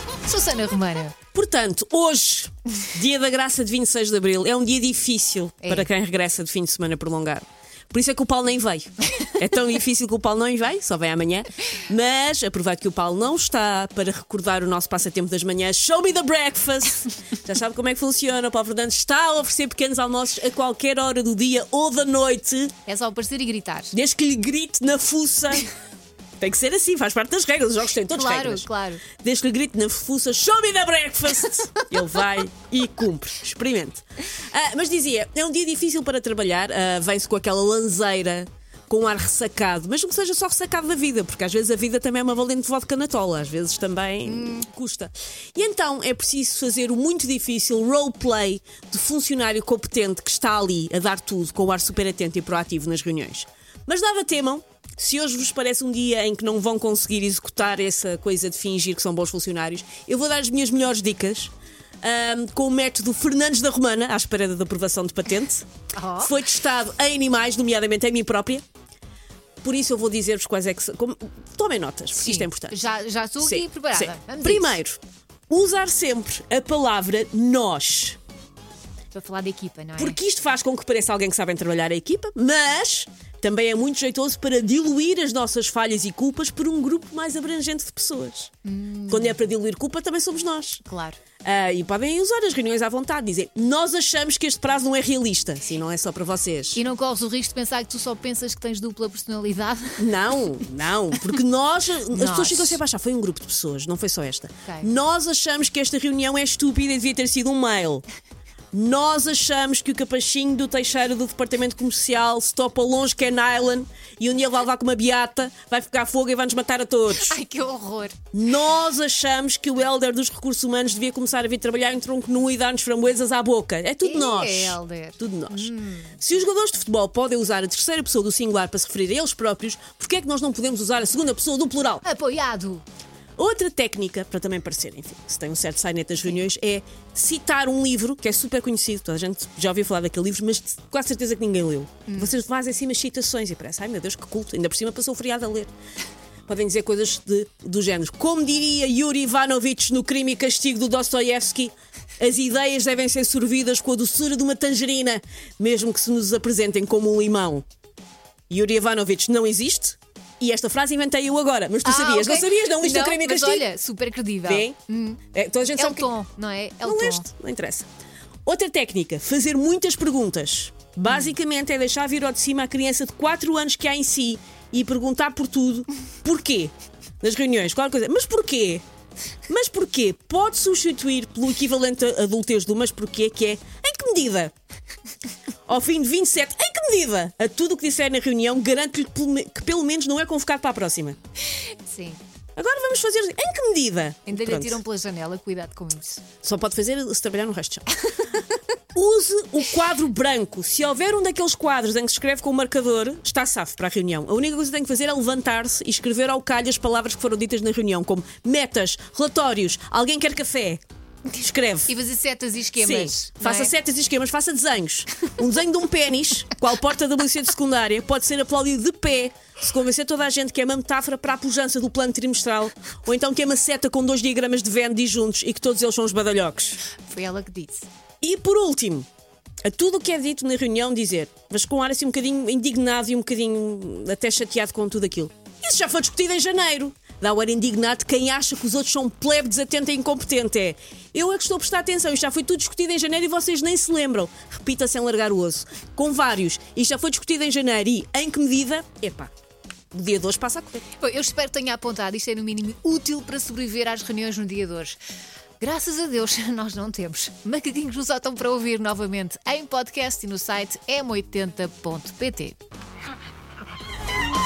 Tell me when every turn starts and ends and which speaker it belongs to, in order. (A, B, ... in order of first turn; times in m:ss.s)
0:00.2-0:01.1 A
0:01.3-0:22.7 B
0:05.6-0:05.9 A
0:22.8-0:23.9 A
0:23.9-0:25.7 B
0:26.4-1:05.6 B
0:28.1-0:29.0 A
0:44.2-0:44.7 A
1:05.9-1:06.3 A
1:06.2-1:08.6 B
1:09.6-1:12.8 B
1:12.1-1:14.8 A
1:13.4-1:15.0 B
1:15.5-1:18.2 B
1:19.1-1:20.2 A
1:20.0-1:28.5 B
1:28.6-1:29.4 A
1:29.1-1:30.8 B
1:30.8-1:31.2 A
1:31.4-1:36.8 B
1:36.7-1:40.1 A
1:40.0-1:48.0 B
1:42.1-1:42.8 A
1:44.6-1:44.9 A
1:48.7-1:57.4 B
1:57.1-1:58.2 A
1:58.3-2:12.0 B
2:04.0-2:06.1 A
2:12.0-2:12.8 A
2:13.4-2:25.7 B
2:22.1-2:22.3 A
2:26.5-2:37.6 B
2:38.5-2:43.7 B
2:41.8-2:45.2 A
2:44.4-2:44.8 B
2:45.3-2:46.1 B
2:45.8-2:47.3 A
2:46.8-2:47.8 B
2:48.4-2:58.8 B
2:59.5-3:04.5 B
3:05.7-3:11.2 B
3:11.6-3:12.2 A
3:12.6-3:14.8 B
3:14.3-3:16.2 A
3:16.4-3:18.2 B
3:18.9-3:30.8 B
3:31.3-3:31.9 B
3:31.8-3:33.7 A
3:32.8-3:46.8 B
3:47.0-3:47.8 A
3:48.2-3:49.0 B
3:49.6-4:09.3 B
4:09.9-4:10.8 B
4:11.0-4:15.0 A
4:15.6-4:22.6 A